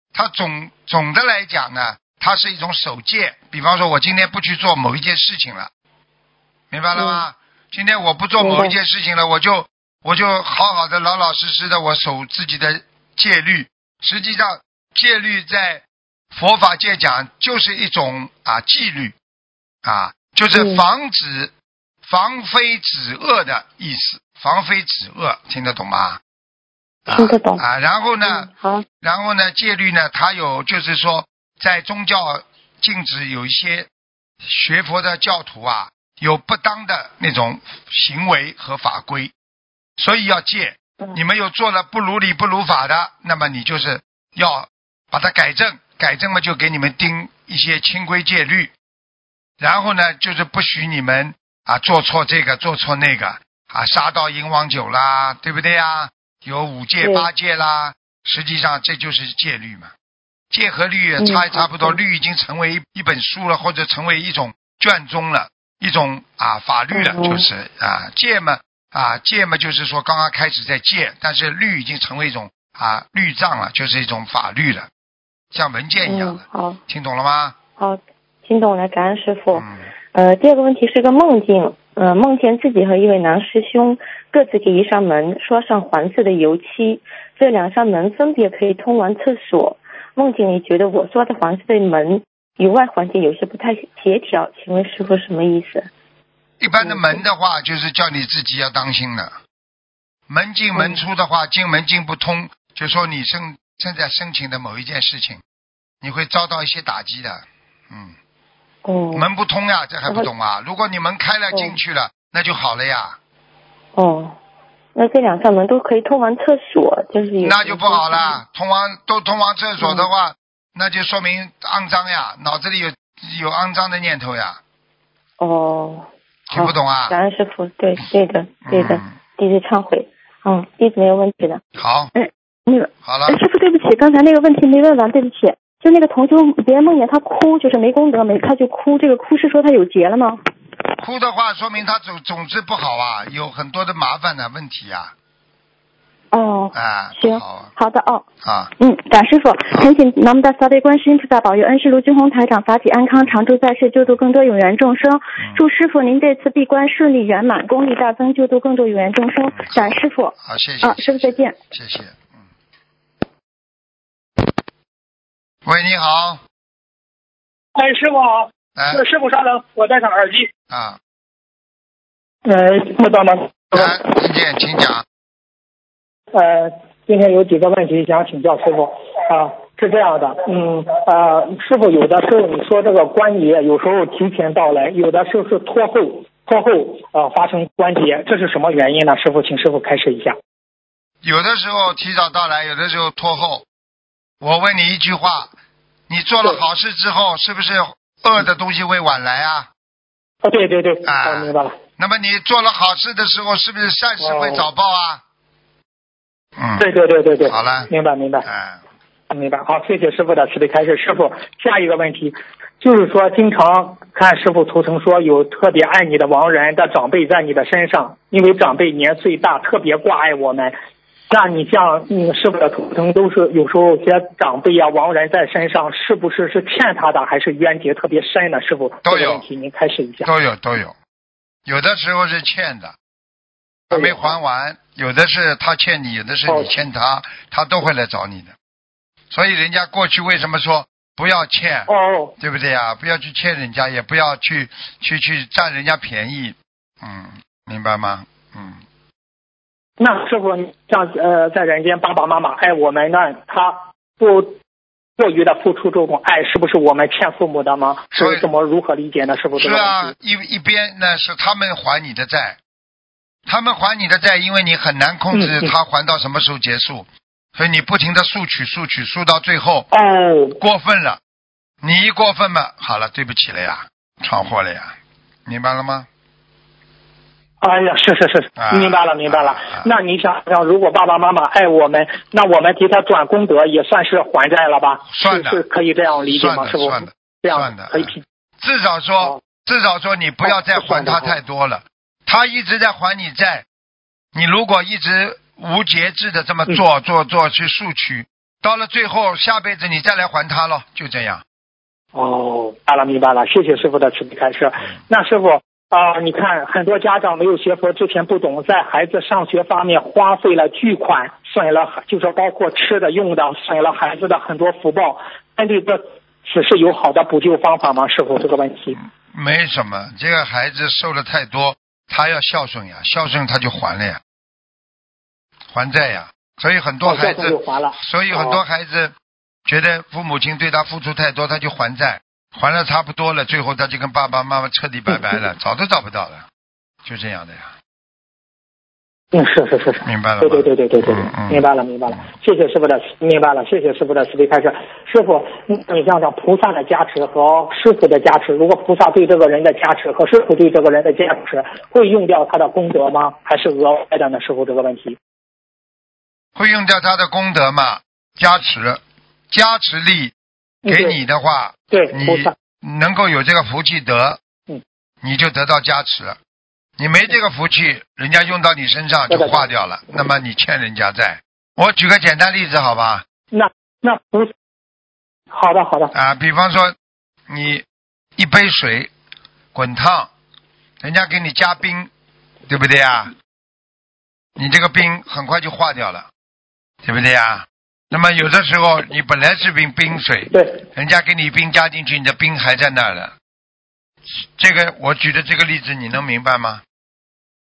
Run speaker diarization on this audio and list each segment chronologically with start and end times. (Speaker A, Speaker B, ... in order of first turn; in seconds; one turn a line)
Speaker A: 0.1-5.7
Speaker A: 6.7-19.1
Speaker B: 6.9-7.3
Speaker B: 8.4-8.8
Speaker A: 19.8-21.5
Speaker B: 20.5-20.8
Speaker A: 22.0-26.2
Speaker A: 27.1-28.5
Speaker B: 27.1-27.6
Speaker B: 28.2-28.9
Speaker A: 29.0-33.9
Speaker A: 34.4-39.3
Speaker A: 40.0-48.7
Speaker A: 49.6-59.9
Speaker A: 60.5-74.9
Speaker C: 61.2-62.0
Speaker C: 66.9-67.5
Speaker A: 75.5-77.6
Speaker B: 76.0-76.8
Speaker B: 77.8-95.9
Speaker A: 79.5-79.8
Speaker A: 96.6-99.4
Speaker B: 96.8-97.2
Speaker A: 100.3-105.4
Speaker B: 100.8-101.0
Speaker A: 106.0-108.2
Speaker B: 108.8-109.3
Speaker A: 109.1-113.2
Speaker B: 111.5-111.8
Speaker B: 114.0-114.4
Speaker B: 115.0-118.4
Speaker A: 117.4-124.6
Speaker B: 119.8-120.1
Speaker B: 125.4-131.6
Speaker A: 126.5-127.2
Speaker A: 128.7-129.1
Speaker A: 131.8-132.1
Speaker C: 132.2-140.4
Speaker A: 133.1-133.4
Speaker A: 141.0-145.1
Speaker C: 146.3-148.2
Speaker A: 146.7-147.7
Speaker A: 148.4-148.7
Speaker C: 148.8-161.6
Speaker A: 159.6-162.4
Speaker A: 165.7-166.4
Speaker D: 167.8-170.5
Speaker A: 168.8-169.0
Speaker A: 170.7-171.0
Speaker D: 172.4-174.1
Speaker A: 173.7-175.1
Speaker D: 176.3-190.4
Speaker A: 191.2-193.7
Speaker A: 194.4-195.5
Speaker A: 196.1-199.7
Speaker D: 200.4-201.8
Speaker A: 201.1-205.2
Speaker D: 204.2-204.7
Speaker A: 206.6-206.9
Speaker D: 206.8-208.5
Speaker A: 207.5-207.9
Speaker A: 208.4-208.8
Speaker D: 209.3-220.8
Speaker D: 221.3-230.3
Speaker A: 229.1-229.4
Speaker A: 230.2-231.0
Speaker A: 231.7-233.0
Speaker A: 233.9-238.6
Speaker D: 233.9-234.3
Speaker D: 236.5-236.7
Speaker A: 239.3-248.8
Speaker D: 241.9-242.3
Speaker D: 250.0-254.6
Speaker D: 255.2-260.1
Speaker A: 258.2-258.5
Speaker A: 259.6-262.6
Speaker A: 263.5-269.9
Speaker D: 265.3-265.7
Speaker D: 269.9-270.6
Speaker A: 270.6-271.2
Speaker A: 271.8-276.1
Speaker D: 277.6-288.2
Speaker A: 278.6-279.9
Speaker A: 285.1-285.6
Speaker A: 286.3-293.7
Speaker D: 290.6-291.3
Speaker A: 294.3-301.4
Speaker D: 302.1-319.0
Speaker A: 319.0-324.2
Speaker A: 325.7-329.1
Speaker D: 327.1-328.6
Speaker A: 329.7-336.5
Speaker A: 337.1-337.7
Speaker D: 339.3-355.2
Speaker A: 340.1-342.2
Speaker A: 356.6-360.3
Speaker D: 360.9-361.2
Speaker A: 360.9-364.4
Speaker D: 361.9-362.6
Speaker A: 365.2-366.4
Speaker A: 367.0-373.2
Speaker D: 369.3-369.7
Speaker D: 373.5-374.5
Speaker D: 375.5-376.1
Speaker A: 376.1-376.9
Speaker A: 377.5-377.9
Speaker A: 378.4-379.1
Speaker A: 379.7-380.3
Speaker A: 381.0-382.1
Speaker A: 382.7-383.3
Speaker A: 384.6-386.3
Speaker A: 387.0-393.3
Speaker D: 390.5-390.8
Speaker A: 394.6-396.8